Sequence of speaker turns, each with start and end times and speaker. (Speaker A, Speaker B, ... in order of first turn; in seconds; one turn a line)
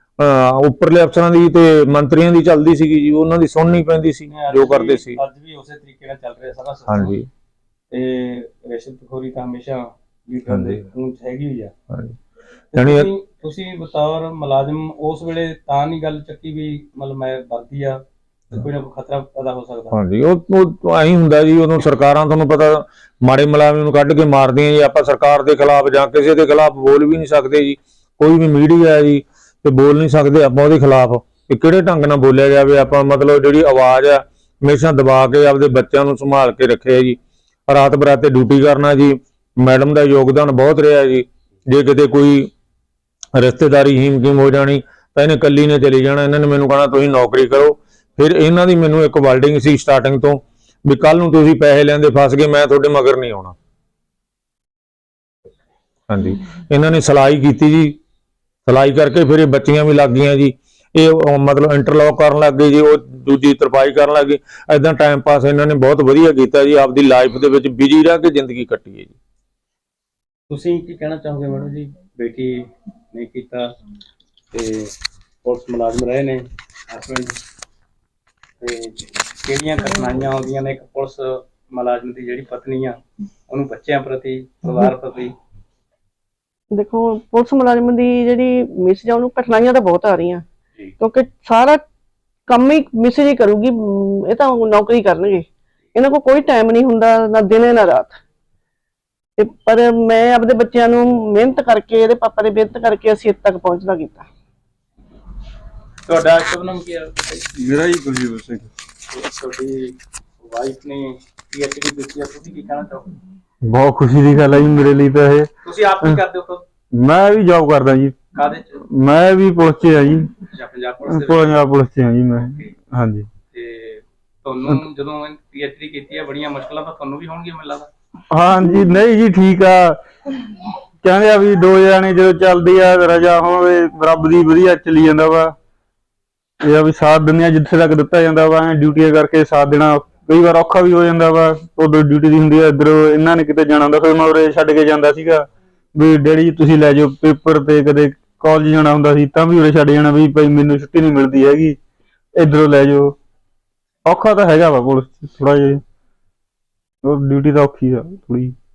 Speaker A: 0.2-5.2
Speaker B: 4.3-7.2
Speaker A: 6.9-7.3
Speaker B: 7.9-11.7
Speaker A: 10.5-10.8
Speaker A: 11.9-12.2
Speaker B: 12.7-18.0
Speaker A: 12.8-13.1
Speaker B: 18.5-19.9
Speaker A: 19.9-42.5
Speaker A: 43.4-53.5
Speaker A: 56.1-58.0
Speaker A: 58.7-69.2
Speaker B: 70.5-73.7
Speaker B: 74.5-74.9
Speaker B: 75.4-77.4
Speaker B: 78.6-85.4
Speaker C: 86.7-90.4
Speaker C: 91.0-91.8
Speaker C: 92.5-93.7
Speaker C: 94.3-95.4
Speaker C: 96.0-98.2
Speaker C: 99.4-104.3
Speaker B: 106.1-107.5
Speaker D: 107.6-108.7
Speaker B: 109.1-113.2
Speaker D: 113.6-115.5
Speaker B: 115.6-116.7
Speaker D: 116.9-118.2
Speaker B: 118.3-118.8
Speaker D: 118.9-120.3
Speaker B: 120.5-121.7
Speaker D: 121.1-123.3
Speaker B: 122.4-122.7
Speaker B: 123.5-127.9
Speaker D: 128.3-130.0
Speaker D: 131.0-135.6
Speaker D: 136.6-151.8
Speaker D: 152.4-153.2
Speaker D: 154.1-155.8
Speaker D: 157.0-158.6